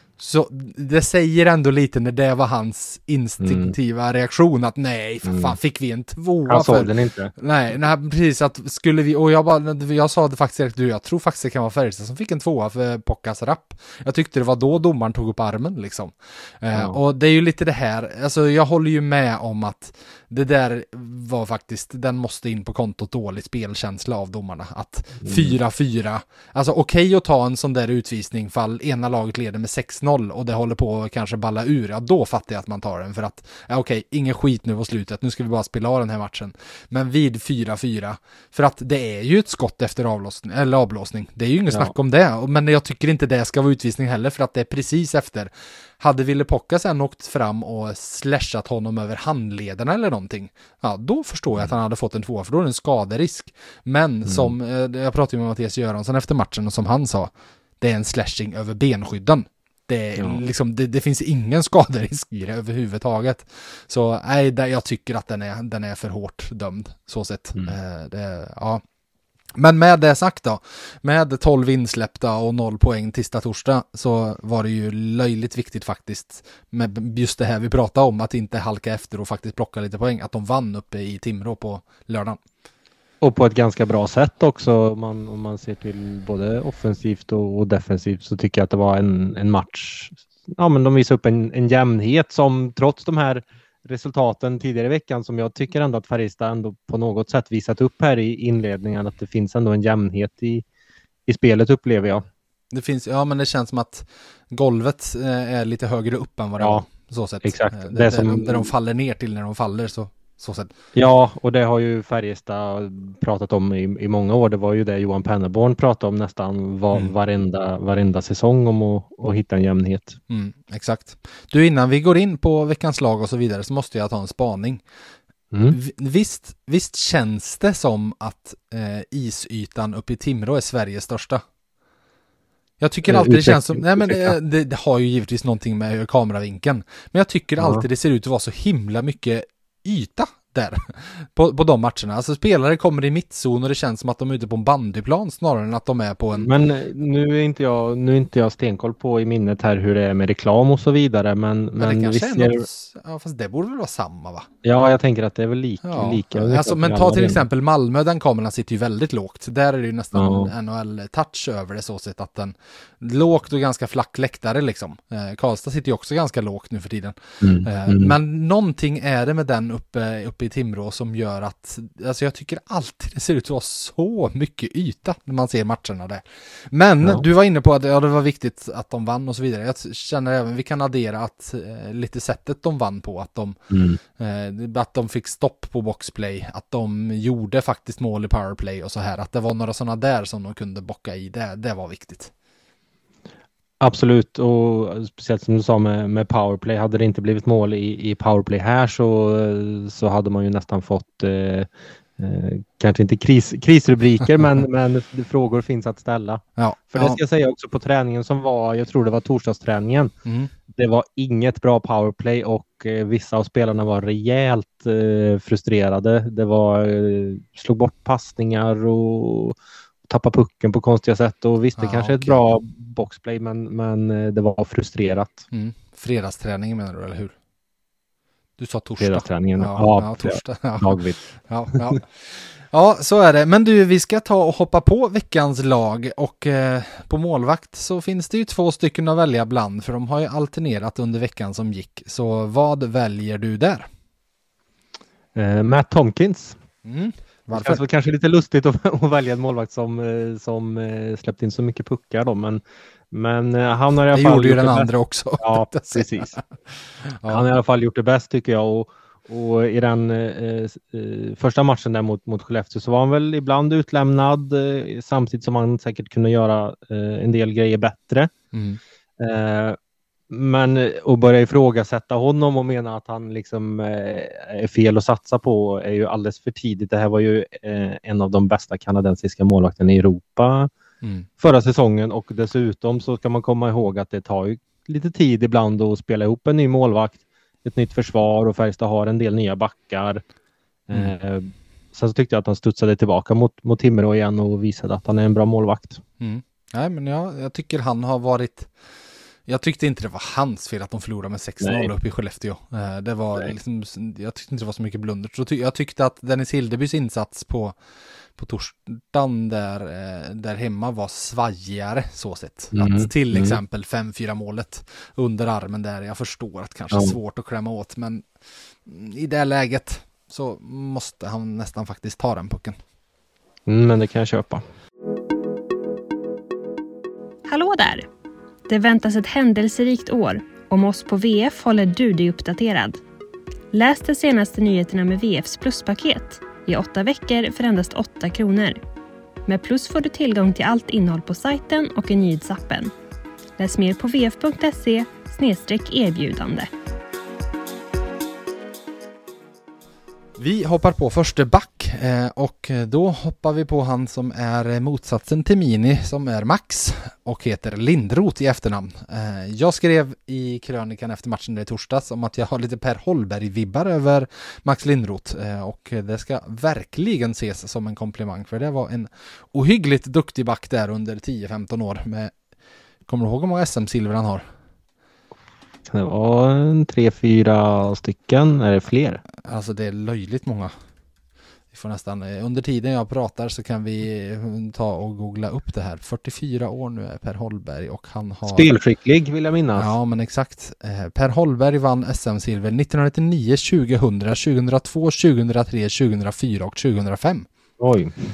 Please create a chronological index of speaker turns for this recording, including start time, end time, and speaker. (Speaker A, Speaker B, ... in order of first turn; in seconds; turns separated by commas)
Speaker A: 0.2-68.8, Speaker B: 3.4-3.8, Speaker B: 5.2-5.5, Speaker B: 6.5-7.3, Speaker B: 25.2-25.6, Speaker B: 54.3-54.5, Speaker B: 60.2-60.4, Speaker A: 69.5-82.4, Speaker B: 83.2-100.7, Speaker B: 101.3-102.2, Speaker A: 102.7-110.7, Speaker B: 106.6-106.8, Speaker B: 107.4-108.7, Speaker B: 111.0-120.2, Speaker A: 120.3-124.8, Speaker B: 125.5-125.8, Speaker A: 125.7-131.4, Speaker A: 132.8-146.5, Speaker B: 133.1-134.3, Speaker B: 137.6-137.8, Speaker B: 146.3-152.7, Speaker A: 151.8-154.5, Speaker B: 154.6-157.4, Speaker A: 155.8-183.6, Speaker B: 160.1-160.5, Speaker B: 167.4-168.1, Speaker B: 183.7-184.0, Speaker A: 184.2-192.3, Speaker B: 193.8-210.1, Speaker A: 206.6-207.2, Speaker A: 210.2-210.5, Speaker B: 210.8-225.5, Speaker A: 221.8-222.6, Speaker A: 225.5-227.3, Speaker A: 228.6-231.0, Speaker B: 229.0-231.2, Speaker A: 231.5-243.9, Speaker B: 245.3-246.6, Speaker A: 246.8-247.8, Speaker B: 247.5-256.4, Speaker A: 254.1-256.1, Speaker A: 257.1-257.5, Speaker B: 257.3-268.3, Speaker A: 268.5-268.8, Speaker B: 269.2-269.8, Speaker B: 270.3-280.7, Speaker B: 281.4-290.2, Speaker B: 290.9-296.0, Speaker A: 296.2-298.7, Speaker A: 299.5-307.8, Speaker B: 301.6-301.9, Speaker A: 308.4-318.3, Speaker B: 312.8-313.6, Speaker B: 316.9-317.2, Speaker A: 318.9-322.8, Speaker B: 323.7-324.6, Speaker C: 327.5-328.1, Speaker C: 328.7-333.0, Speaker C: 333.7-338.8, Speaker C: 339.5-342.9, Speaker C: 343.6-346.7, Speaker A: 350.4-372.3, Speaker A: 373.1-374.4, Speaker B: 375.9-379.2, Speaker A: 379.4-380.7, Speaker A: 381.7-388.7, Speaker B: 388.5-389.9, Speaker A: 389.8-397.5, Speaker B: 397.8-398.1